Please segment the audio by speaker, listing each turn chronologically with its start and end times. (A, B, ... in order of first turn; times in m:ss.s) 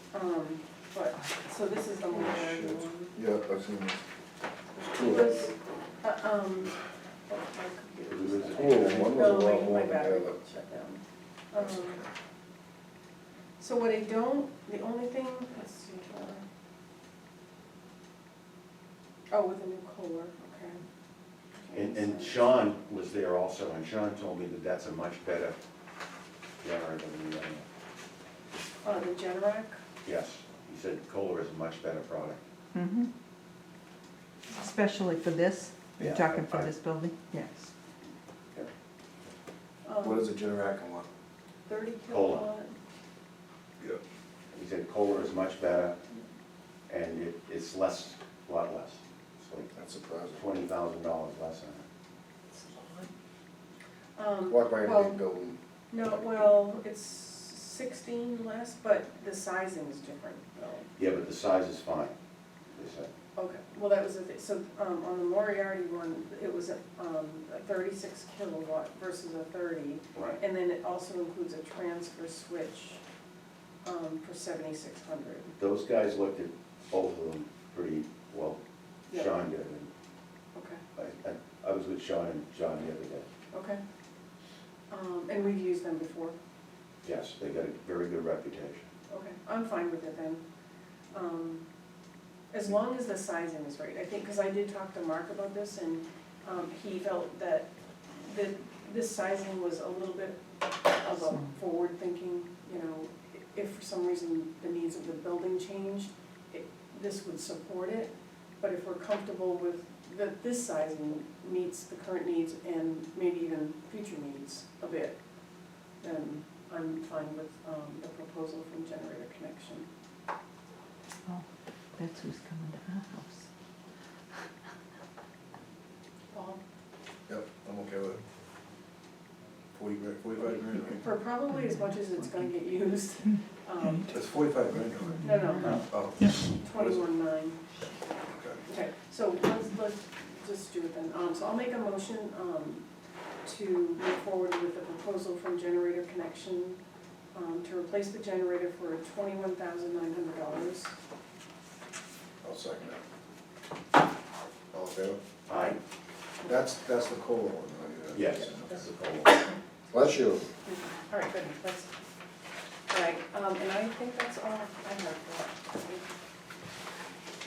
0:00.1-0:03.2 A
0:02.1-0:04.0 B
0:04.8-0:05.5 B
0:04.9-0:06.8 A
0:07.3-0:12.0 A
0:08.1-0:09.3 C
0:08.6-0:10.4 B
0:11.7-0:12.1 B
0:13.6-0:16.4 A
0:19.3-0:20.8 A
0:21.6-0:22.4 A
0:21.7-0:25.6 C
0:26.6-0:27.6 C
0:28.8-0:29.8 A
0:30.0-0:32.4 C
0:32.7-0:33.1 D
0:34.5-0:37.2 D
0:36.0-0:36.7 C
0:37.3-0:37.7 A
0:39.8-0:40.3 A
0:40.0-0:41.1 B
0:41.7-0:42.8 A
0:42.1-0:42.5 C
0:44.5-0:46.0 C
0:46.9-0:49.7 C
0:49.7-0:50.4 B
0:50.3-0:51.8 C
0:52.6-0:53.1 A
0:54.2-0:55.2 A
0:54.5-0:55.6 B
0:55.9-1:00.9 A
1:01.0-1:02.1 C
1:02.8-1:03.1 C
1:03.4-1:13.0 A
1:13.8-1:15.6 A
1:15.6-1:19.9 C
1:19.1-1:19.4 A
1:20.6-1:20.8 A
1:21.0-1:23.3 C
1:23.5-1:23.8 A
1:24.9-1:26.4 A
1:27.0-1:28.9 C
1:29.1-1:30.4 A
1:31.1-1:31.6 A
1:32.5-1:37.7 A
1:38.2-1:55.2 A
1:56.0-1:59.9 A
2:02.0-2:03.4 D
2:06.3-2:06.6 A
2:07.3-2:08.2 B
2:09.8-2:11.0 B
2:11.0-2:14.2 A
2:14.1-2:17.0 B
2:15.2-2:15.8 A
2:15.4-2:15.7 D
2:16.5-2:17.6 A
2:18.3-2:18.6 B
2:18.7-2:22.8 A
2:23.4-2:26.8 A
2:27.3-2:30.9 A
2:32.4-2:33.0 B
2:34.7-2:35.2 B
2:35.5-2:35.8 C
2:35.5-2:35.8 A
2:36.4-2:38.8 B
2:38.1-2:39.5 C
2:39.9-2:40.5 B
2:40.6-2:41.9 A
2:42.9-2:46.1 A